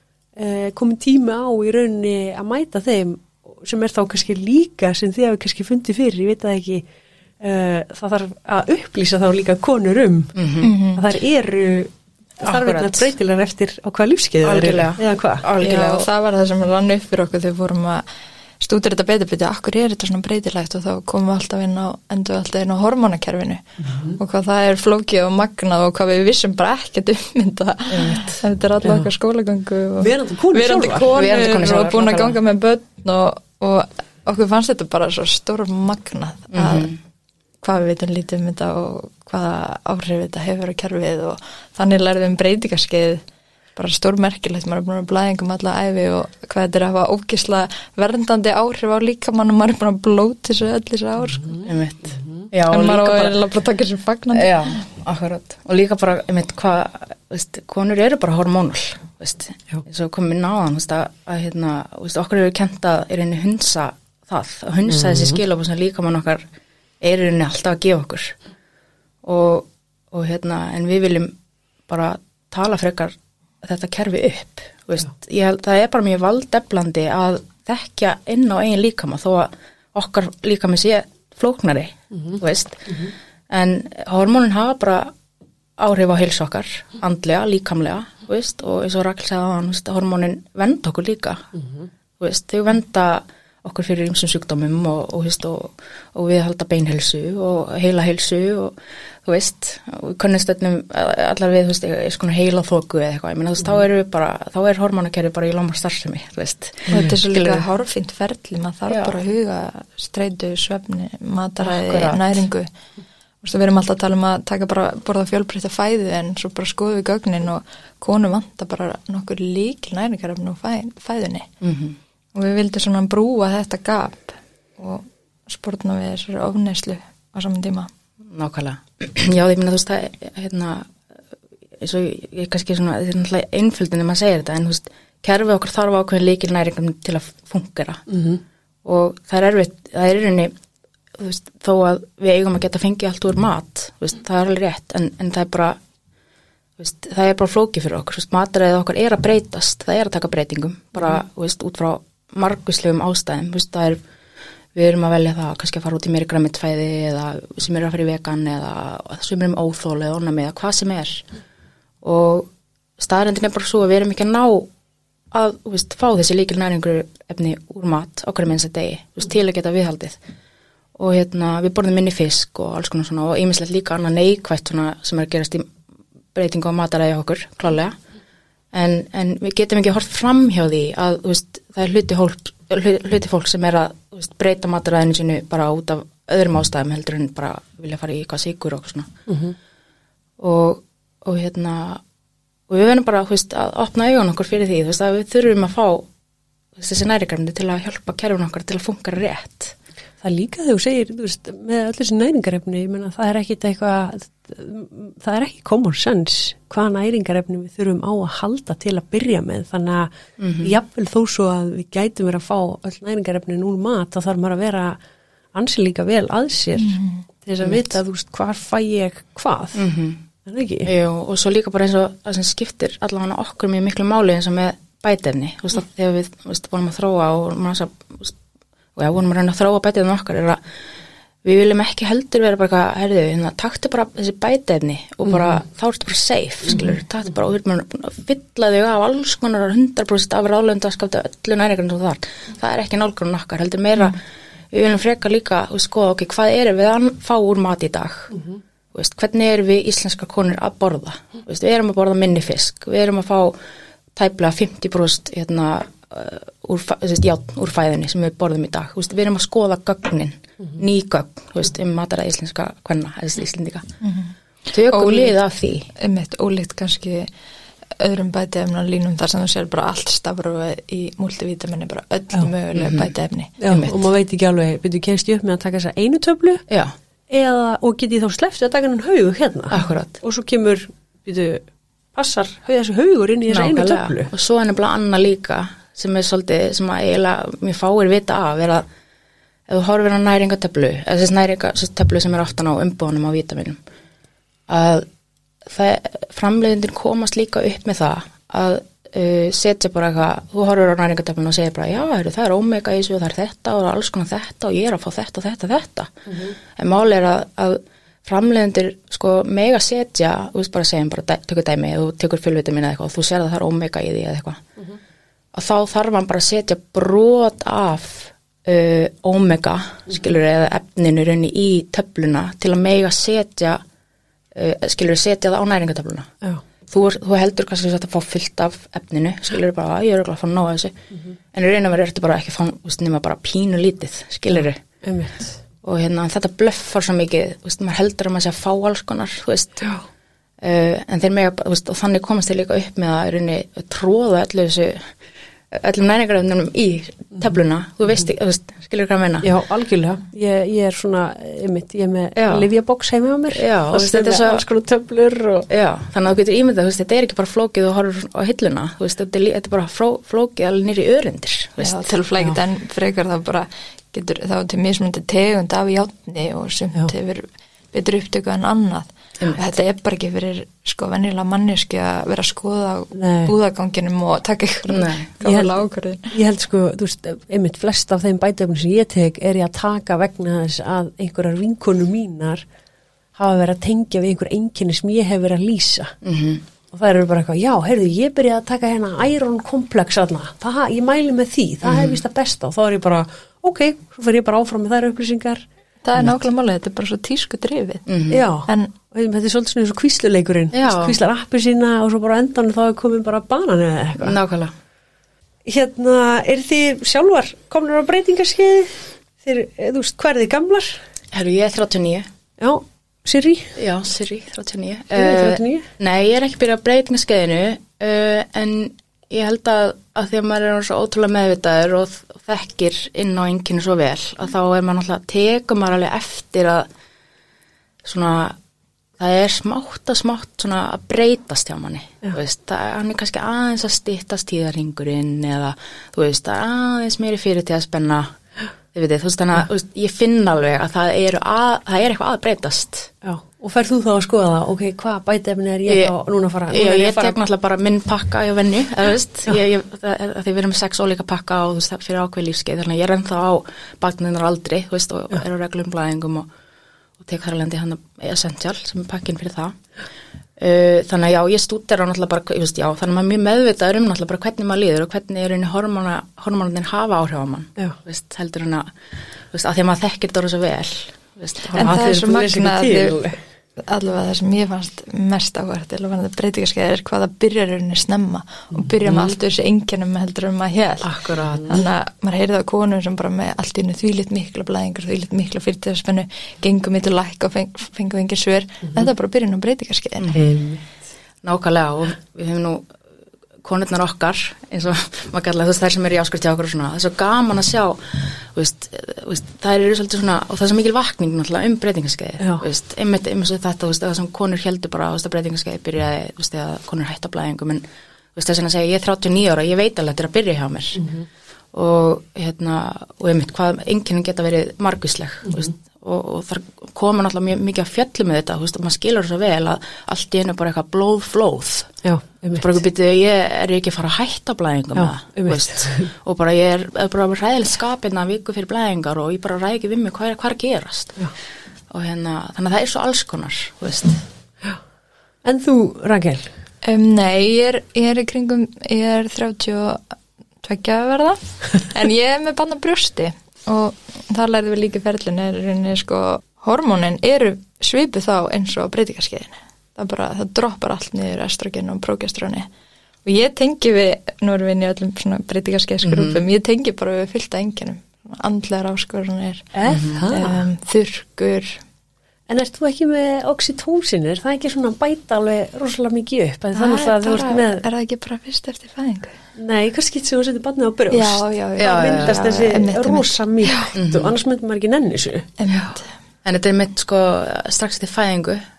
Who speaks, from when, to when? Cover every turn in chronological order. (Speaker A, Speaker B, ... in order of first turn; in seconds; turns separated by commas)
Speaker A: 0.3-6.9, Speaker A: 7.4-15.5, Speaker B: 10.4-10.7, Speaker C: 10.6-11.0, Speaker B: 12.4-13.1, Speaker B: 14.4-16.1, Speaker C: 15.6-18.1, Speaker C: 18.6-36.9, Speaker A: 23.8-24.2, Speaker B: 27.9-28.4, Speaker A: 28.8-29.1, Speaker A: 30.0-31.1, Speaker B: 30.9-32.4, Speaker B: 36.5-37.0, Speaker C: 37.6-43.2, Speaker C: 43.8-51.6, Speaker B: 51.6-53.4, Speaker A: 52.2-52.4, Speaker C: 52.7-54.8, Speaker B: 54.3-66.5, Speaker A: 64.9-65.4, Speaker B: 67.0-68.4, Speaker B: 69.2-71.3, Speaker B: 71.9-85.1, Speaker A: 82.1-83.1, Speaker B: 85.8-91.5, Speaker A: 91.5-91.9, Speaker B: 92.2-107.7, Speaker C: 106.9-112.7, Speaker B: 111.6-112.4, Speaker C: 113.4-121.5, Speaker B: 121.6-122.0, Speaker C: 122.3-127.9, Speaker B: 128.3-130.9, Speaker B: 131.8-138.0, Speaker A: 138.1-138.4, Speaker B: 138.8-140.5, Speaker B: 141.2-145.8, Speaker B: 146.8-154.0, Speaker B: 154.8-161.2, Speaker B: 162.0-164.7, Speaker B: 165.3-170.2, Speaker B: 171.0-175.7, Speaker B: 176.3-178.0, Speaker B: 178.7-189.1, Speaker A: 189.3-189.6, Speaker B: 190.4-192.0, Speaker B: 192.7-196.1, Speaker B: 196.8-199.8, Speaker A: 200.2-215.0, Speaker B: 210.4-210.8, Speaker A: 215.5-219.9, Speaker C: 216.8-217.2, Speaker B: 217.6-218.0, Speaker B: 219.8-220.2, Speaker A: 220.4-220.9, Speaker B: 220.9-228.3, Speaker B: 229.0-230.6, Speaker B: 231.4-244.2, Speaker A: 235.3-235.6, Speaker B: 244.7-248.3, Speaker B: 248.9-253.6, Speaker B: 254.2-263.9, Speaker C: 264.0-264.3, Speaker B: 264.7-265.9, Speaker C: 264.9-265.4, Speaker C: 266.0-267.3, Speaker C: 268.0-273.5, Speaker B: 272.8-273.1, Speaker A: 273.6-276.6, Speaker B: 273.7-274.0, Speaker B: 276.7-276.9, Speaker A: 277.3-284.3, Speaker B: 279.7-280.2, Speaker B: 283.5-288.9, Speaker B: 289.7-293.8, Speaker B: 294.7-295.1, Speaker B: 295.6-306.2, Speaker A: 306.3-306.6, Speaker B: 306.8-314.6, Speaker B: 315.5-323.8, Speaker B: 324.5-326.3, Speaker B: 326.9-330.9, Speaker B: 331.5-334.8, Speaker A: 334.5-335.6, Speaker B: 335.8-339.9, Speaker B: 340.6-345.1, Speaker B: 345.7-349.5, Speaker A: 349.4-355.7, Speaker B: 352.4-352.7, Speaker B: 353.5-354.6, Speaker B: 355.7-362.1, Speaker C: 361.8-376.3, Speaker A: 373.1-373.5, Speaker B: 374.9-375.3, Speaker A: 375.4-382.7, Speaker A: 383.4-386.2, Speaker B: 386.2-386.6, Speaker A: 386.9-395.6, Speaker B: 391.8-392.2, Speaker C: 396.0-398.0, Speaker B: 398.1-398.4, Speaker A: 398.3-404.4, Speaker C: 398.7-398.9, Speaker B: 400.7-401.2, Speaker B: 404.2-404.7, Speaker A: 405.6-411.0, Speaker B: 411.3-412.3, Speaker A: 412.6-413.8, Speaker B: 413.8-426.9, Speaker A: 415.1-415.9, Speaker B: 428.0-428.6, Speaker B: 429.2-438.3, Speaker B: 438.9-443.1, Speaker A: 443.2-447.4, Speaker B: 445.9-446.1, Speaker B: 446.7-456.5, Speaker B: 457.2-459.8, Speaker B: 460.6-468.9, Speaker B: 469.5-472.0, Speaker A: 471.7-473.4, Speaker C: 471.8-473.2, Speaker C: 473.9-490.4, Speaker B: 481.0-481.8, Speaker A: 490.3-490.9, Speaker B: 491.4-492.9, Speaker B: 493.6-507.9, Speaker A: 502.4-502.7, Speaker B: 508.4-511.1, Speaker A: 510.9-511.3, Speaker B: 511.7-521.9, Speaker A: 515.5-515.7, Speaker A: 522.0-522.8, Speaker B: 522.6-531.2, Speaker A: 525.0-526.1, Speaker B: 531.9-534.2, Speaker A: 535.4-536.5, Speaker C: 536.8-540.0, Speaker C: 540.6-552.7, Speaker C: 553.2-559.7, Speaker B: 556.0-556.5, Speaker A: 559.7-560.6, Speaker B: 559.9-560.3, Speaker C: 560.3-561.8, Speaker A: 562.5-567.9, Speaker C: 566.7-569.4, Speaker A: 569.6-575.5, Speaker C: 571.1-573.9, Speaker B: 571.8-572.7, Speaker B: 573.9-574.4, Speaker C: 575.6-576.1, Speaker B: 576.4-578.6